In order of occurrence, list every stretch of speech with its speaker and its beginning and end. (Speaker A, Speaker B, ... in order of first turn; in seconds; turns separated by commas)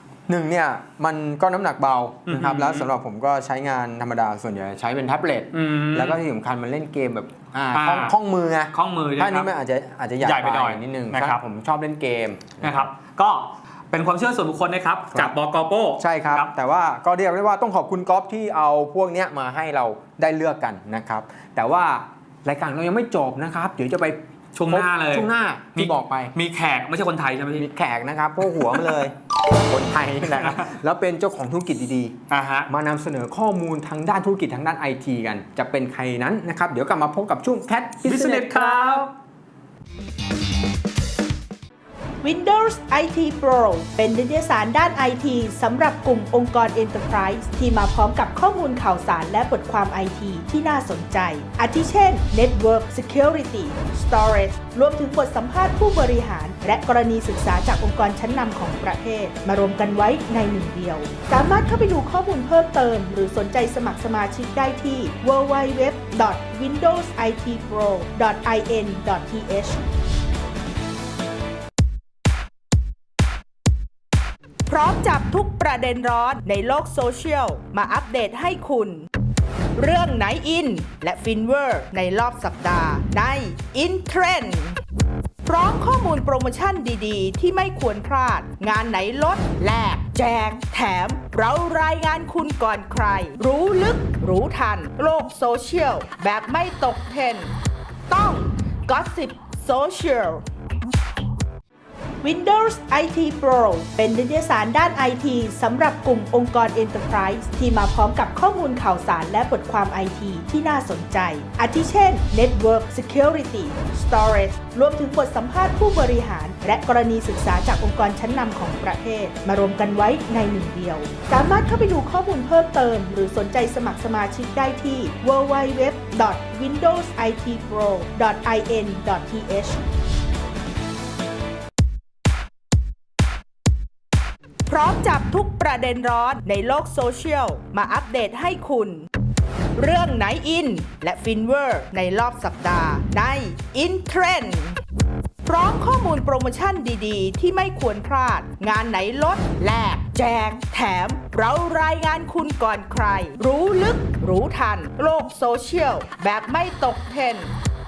Speaker A: 0.3-12.9, Speaker B: 2.3-2.9, Speaker B: 5.5-6.2, Speaker B: 7.7-8.2, Speaker B: 8.7-9.5, Speaker B: 10.2-11.4, Speaker B: 12.6-16.5, Speaker A: 16.0-26.3, Speaker B: 24.5-27.7, Speaker A: 27.5-29.1, Speaker B: 28.5-29.0, Speaker A: 29.6-32.1, Speaker B: 30.3-30.7, Speaker B: 32.3-32.7, Speaker A: 32.7-39.1, Speaker B: 38.0-39.1, Speaker C: 42.2-69.8, Speaker C: 74.7-79.1, Speaker C: 79.8-84.8, Speaker C: 85.4-97.5, Speaker C: 98.1-100.4, Speaker C: 102.2-129.8, Speaker C: 134.7-139.1, Speaker C: 139.8-144.8, Speaker C: 145.4-157.6